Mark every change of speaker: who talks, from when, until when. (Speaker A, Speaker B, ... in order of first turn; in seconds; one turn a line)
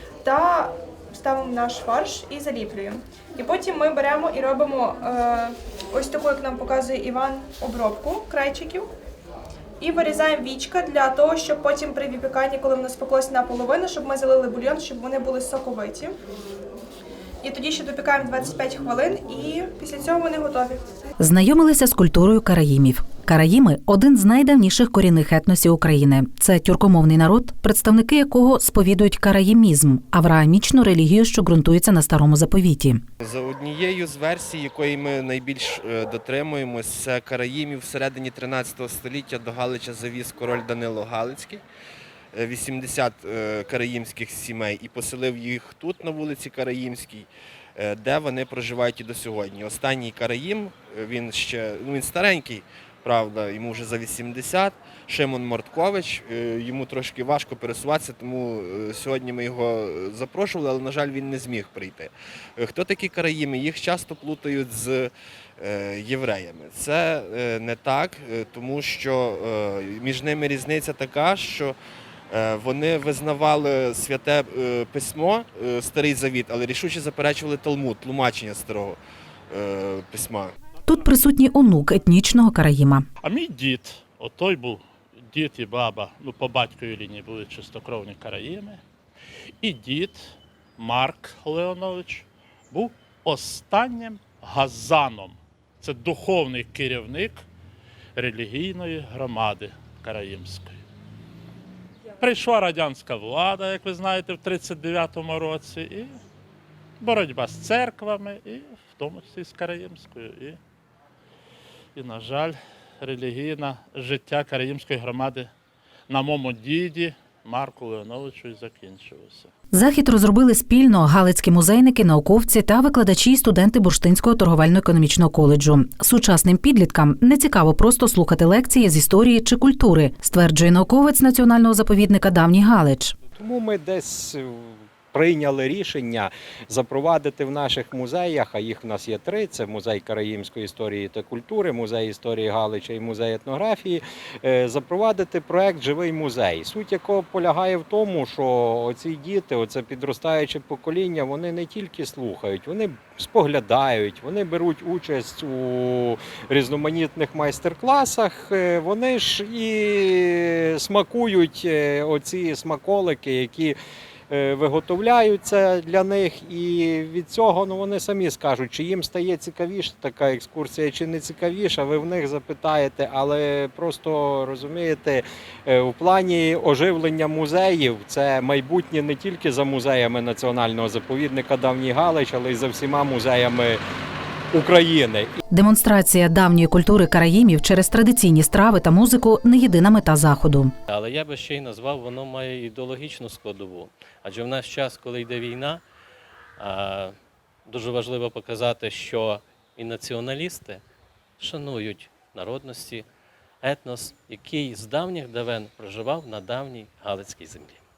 Speaker A: 0.2-8.9
Speaker A: 9.8-16.1
Speaker A: 17.4-20.8
Speaker B: 21.2-33.0
Speaker C: 33.2-41.6
Speaker C: 42.3-71.8
Speaker C: 72.3-79.0
Speaker C: 79.5-80.5
Speaker B: 80.9-83.0
Speaker D: 83.2-88.8
Speaker D: 89.6-97.5
Speaker D: 98.2-100.8
Speaker D: 102.2-106.2
Speaker D: 107.0-110.6
Speaker D: 112.0-115.5
Speaker D: 116.1-119.5
Speaker B: 119.7-133.1
Speaker E: 133.3-163.8
Speaker E: 164.3-183.8
Speaker E: 184.5-185.4
Speaker B: 185.5-190.7
Speaker F: 190.9-195.8
Speaker F: 196.6-197.2
Speaker F: 197.7-200.8
Speaker F: 201.4-203.1
Speaker F: 203.6-207.8